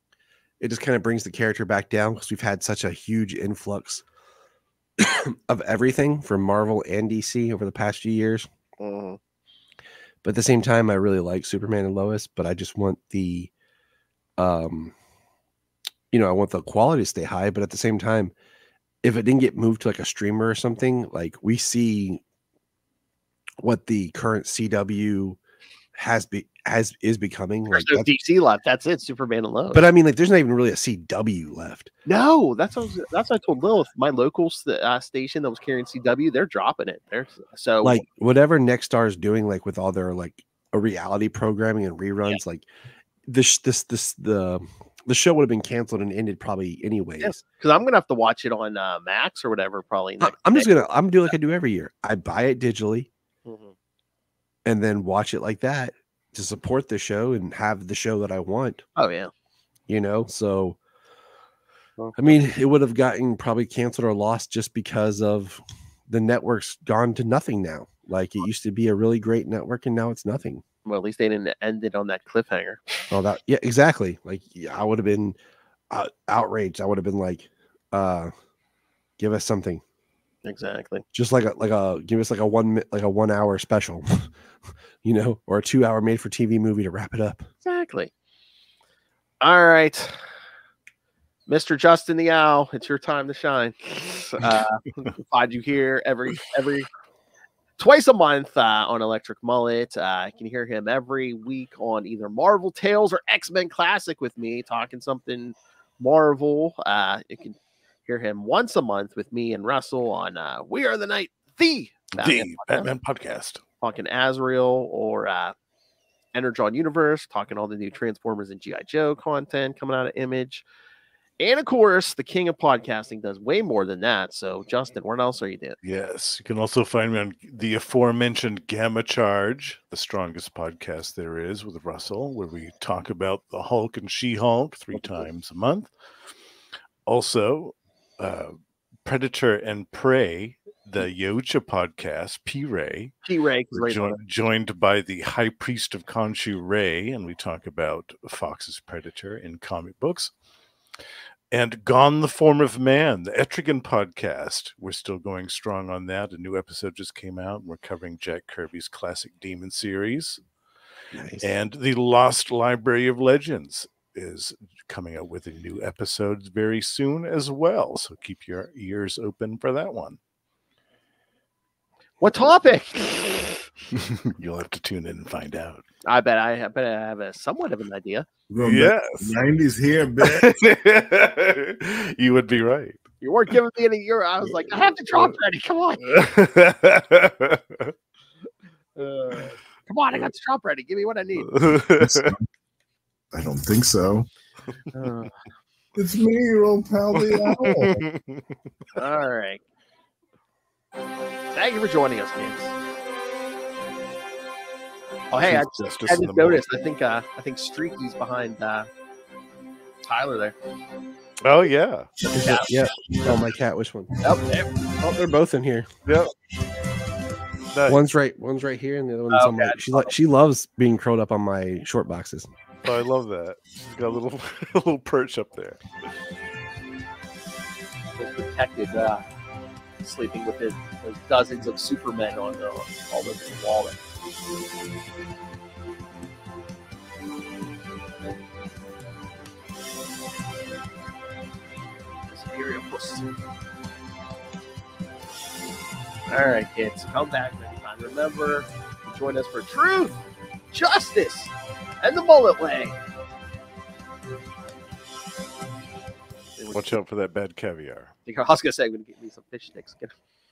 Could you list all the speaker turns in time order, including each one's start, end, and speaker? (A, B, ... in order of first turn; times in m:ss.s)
0:00.6-0:04.0 A
0:05.0-0:08.5 A
0:08.8-0:09.2 B
0:10.2-0:13.5 A
0:14.4-0:14.9 A
0:16.1-0:18.3 A
0:19.0-0:22.2 A
0:23.6-0:25.4 A
0:26.0-0:28.1 A
0:27.7-0:29.8 B
0:29.7-0:31.9 A
0:32.1-0:38.0 B
0:37.8-0:42.7 A
0:43.3-0:47.4 A
0:47.2-0:50.7 B
0:50.2-0:53.1 A
0:53.5-0:53.7 B
0:54.7-0:58.8 A
0:59.0-0:59.3 B
0:59.9-1:00.8 A
1:02.0-1:02.4 B
1:02.2-1:10.6 A
1:10.9-1:12.8 B
1:13.1-1:15.4 A
1:15.9-1:18.3 A
1:19.2-1:19.8 A
1:20.4-1:21.0 B
1:21.1-1:24.3 A
1:25.0-1:27.5 A
1:27.6-1:28.1 B
1:29.4-1:30.2 B
1:31.5-1:36.9 B
1:37.8-1:52.9 B
1:52.2-1:53.6 C
1:53.8-1:55.6 B
1:56.3-2:00.6 B
2:01.4-2:05.8 B
2:05.8-2:15.9 C
2:14.9-2:15.3 B
2:17.1-2:23.1 C
2:23.2-2:24.2 B
2:23.7-2:30.3 C
2:31.5-2:40.4 C
2:41.1-2:41.5 A
2:41.4-2:50.2 C
2:52.2-2:53.6 B
2:54.1-2:55.8 C
2:56.1-2:58.3 B
2:58.5-3:00.5 D
2:58.6-2:59.4 C
3:00.2-3:03.0 C
3:03.2-3:06.1 B
3:04.8-3:05.4 C
3:06.0-3:07.9 C
3:09.0-3:11.5 B
3:11.4-3:12.3 C
3:11.8-3:12.4 D
3:13.3-3:14.3 D
3:14.9-3:15.4 B
3:16.0-3:18.0 D
3:17.1-3:18.7 C
3:19.0-3:19.6 B
3:21.6-3:22.7 B
3:25.3-3:28.9 B
3:25.4-3:26.7 C
3:30.1-3:30.6 B
3:31.4-3:32.1 C
3:32.3-3:32.7 B
3:32.4-3:34.1 A
3:34.2-3:34.8 B
3:35.0-3:35.9 A
3:36.0-3:36.3 C
3:37.7-3:38.0 C
3:37.9-3:42.5 A
3:39.3-3:40.1 B
3:42.8-3:45.8 C
3:48.2-3:49.3 B
3:50.0-3:54.0 B
4:02.3-4:03.3 B
4:06.3-4:10.2 B
4:10.7-4:13.0 B
4:16.6-4:17.0 B
4:16.7-4:18.2 C
4:18.3-4:20.1 B